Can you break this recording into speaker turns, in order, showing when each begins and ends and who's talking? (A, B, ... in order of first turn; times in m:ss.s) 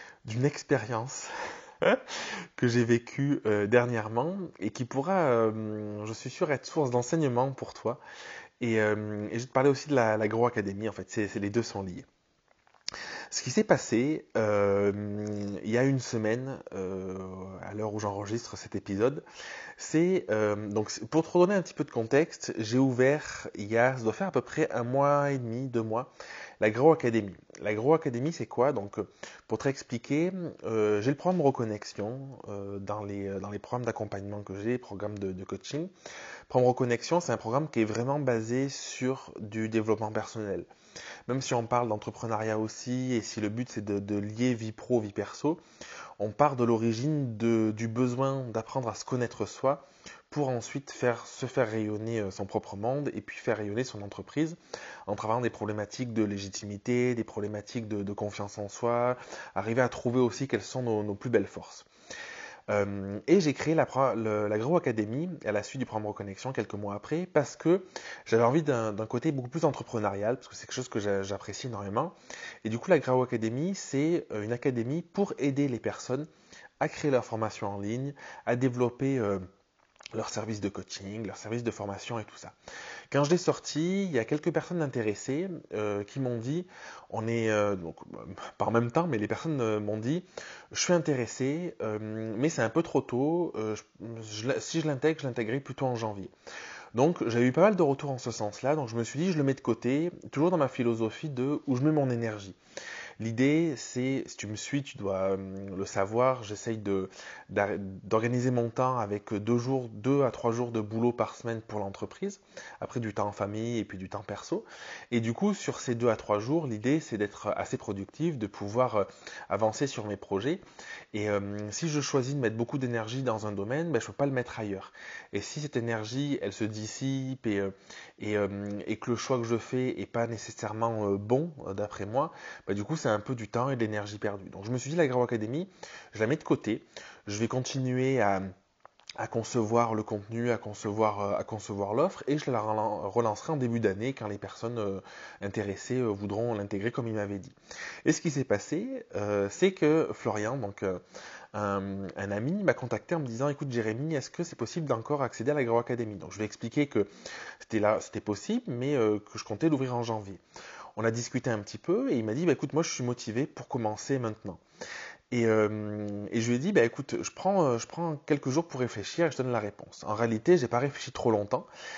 0:00.2-0:08.0 A
0:08.6-0:12.1 A
0:13.3-0:19.2 A
0:19.8-0:35.9 A
0:36.5-0:40.7 A
0:41.3-0:45.6 A
0:46.2-1:01.9 A
1:02.7-1:16.3 A
1:16.8-1:19.5 A
1:20.2-1:22.6 A
1:23.1-1:36.3 A
1:36.9-1:42.6 A
1:43.2-2:18.5 A
2:19.2-2:31.0 A
2:31.5-2:37.1 A
2:37.6-2:40.4 A
2:41.0-2:44.6 A
2:45.3-2:51.7 A